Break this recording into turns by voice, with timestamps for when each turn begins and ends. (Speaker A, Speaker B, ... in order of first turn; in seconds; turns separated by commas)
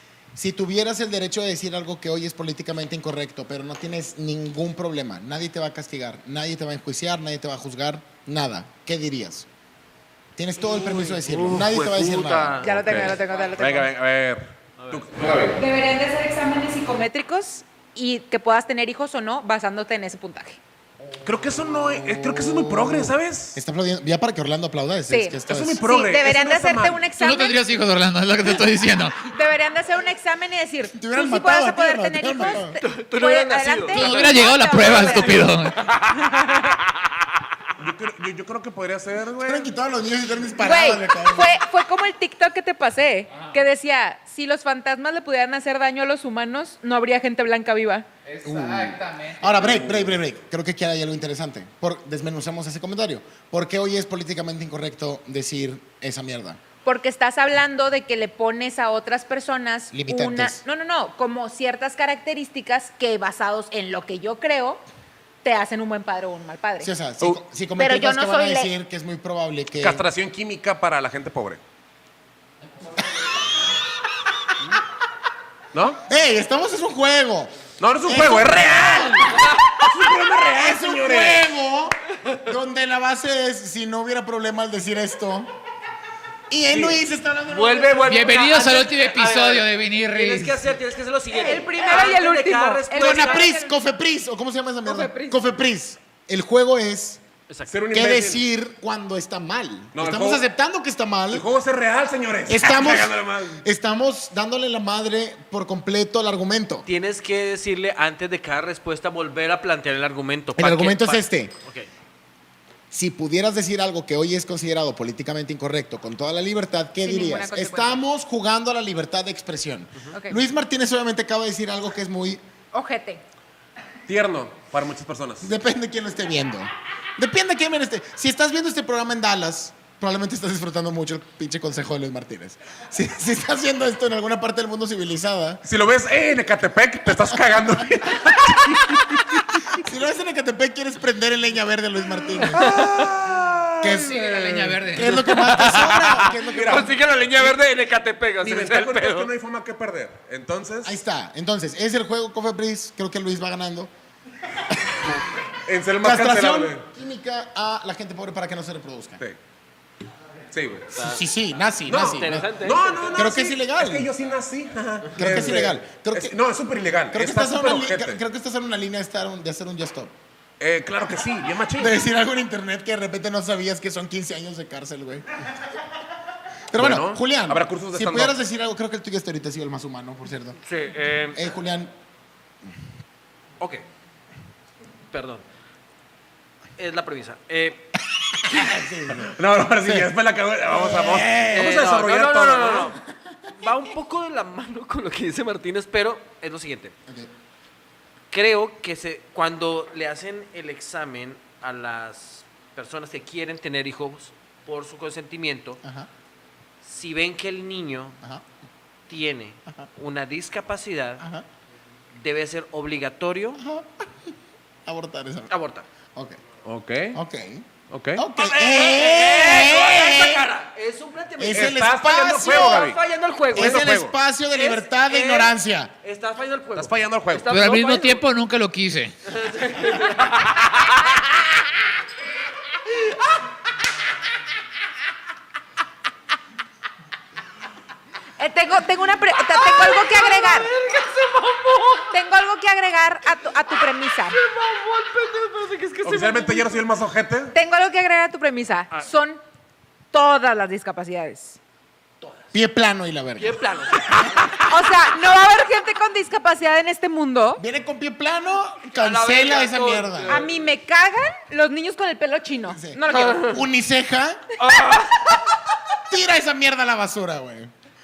Speaker A: 0.3-9.5, Speaker A: 10.4-12.6, Speaker B: 10.6-12.7, Speaker C: 12.6-13.9, Speaker D: 12.6-15.6, Speaker B: 14.8-15.1, Speaker C: 15.6-20.6, Speaker D: 21.2-23.6, Speaker A: 21.7-25.8, Speaker C: 25.1-27.6, Speaker D: 25.5-27.1, Speaker E: 27.1-29.3, Speaker C: 29.3-36.7, Speaker A: 30.9-32.8, Speaker B: 32.5-36.8, Speaker E: 33.9-35.8, Speaker D: 37.8-39.7, Speaker A: 39.4-41.5, Speaker C: 40.6-48.1, Speaker E: 43.3-43.6, Speaker E: 48.2-49.7, Speaker A: 48.4-56.6, Speaker D: 49.7-50.1, Speaker C: 56.8-64.8, Speaker A: 59.9-60.6, Speaker C: 65.4-66.9, Speaker A: 66.8-70.0, Speaker C: 67.8-68.7, Speaker D: 69.8-71.6, Speaker D: 75.7-76.0, Speaker A: 76.1-79.5, Speaker D: 77.8-81.5, Speaker A: 80.5-85.5, Speaker A: 86.5-88.3, Speaker D: 86.7-87.0, Speaker B: 87.5-93.5, Speaker E: 88.0-90.6, Speaker C: 91.3-93.7, Speaker A: 93.0-97.2, Speaker C: 94.8-95.5, Speaker D: 97.7-98.4, Speaker A: 97.9-101.4, Speaker D: 99.9-100.4, Speaker D: 101.3-103.6, Speaker A: 102.5-106.9, Speaker B: 106.8-111.9, Speaker A: 110.5-111.5, Speaker A: 112.9-122.4, Speaker C: 117.0-118.0, Speaker C: 120.1-120.4, Speaker C: 122.7-123.2, Speaker D: 124.1-125.5, Speaker A: 125.4-135.6, Speaker D: 135.6-139.6, Speaker A: 138.6-142.8, Speaker D: 142.5-144.1, Speaker B: 142.6-143.0, Speaker A: 143.8-147.5, Speaker E: 144.0-145.2, Speaker B: 145.0-149.3, Speaker D: 146.4-146.9, Speaker D: 148.4-150.9, Speaker A: 150.8-153.9, Speaker A: 154.7-155.2, Speaker D: 155.7-156.8, Speaker A: 156.0-159.2, Speaker D: 160.5-160.9, Speaker B: 160.9-161.2, Speaker A: 160.9-164.1, Speaker D: 161.9-168.2, Speaker B: 161.9-163.2, Speaker A: 165.1-166.3, Speaker A: 167.1-170.1, Speaker D: 170.6-171.9, Speaker A: 171.7-175.5, Speaker A: 176.7-180.6, Speaker D: 176.7-178.3, Speaker B: 180.7-181.5, Speaker A: 181.3-181.9, Speaker B: 183.6-183.8, Speaker B: 185.1-185.4, Speaker B: 186.8-187.9, Speaker A: 188.4-190.1, Speaker D: 189.2-192.9, Speaker A: 190.7-191.7, Speaker B: 191.5-193.0, Speaker B: 193.6-196.9, Speaker B: 198.3-205.8, Speaker A: 205.8-206.1, Speaker B: 206.8-208.2, Speaker B: 209.1-211.2, Speaker A: 211.2-211.4, Speaker B: 212.1-213.6, Speaker A: 213.6-214.3, Speaker A: 214.8-215.5, Speaker B: 215.5-215.8, Speaker D: 216.6-217.2, Speaker A: 217.1-220.5, Speaker D: 217.9-218.2, Speaker B: 218.3-221.8, Speaker A: 221.4-222.9, Speaker D: 221.5-223.0, Speaker B: 222.4-223.9, Speaker D: 223.5-224.1, Speaker A: 223.5-225.9, Speaker B: 224.5-228.2, Speaker D: 226.8-227.5, Speaker E: 227.5-229.1, Speaker B: 229.2-231.4, Speaker B: 232.8-233.4, Speaker C: 238.4-240.7, Speaker B: 239.5-242.2, Speaker C: 242.1-244.4, Speaker B: 244.3-246.9, Speaker D: 246.0-247.5, Speaker C: 247.5-249.4, Speaker C: 250.1-251.6, Speaker A: 252.5-254.5, Speaker B: 253.4-254.7, Speaker C: 254.7-257.6, Speaker A: 257.6-260.4, Speaker B: 258.9-260.5, Speaker C: 260.3-263.6, Speaker A: 262.7-264.4, Speaker B: 264.6-265.4, Speaker A: 266.0-267.7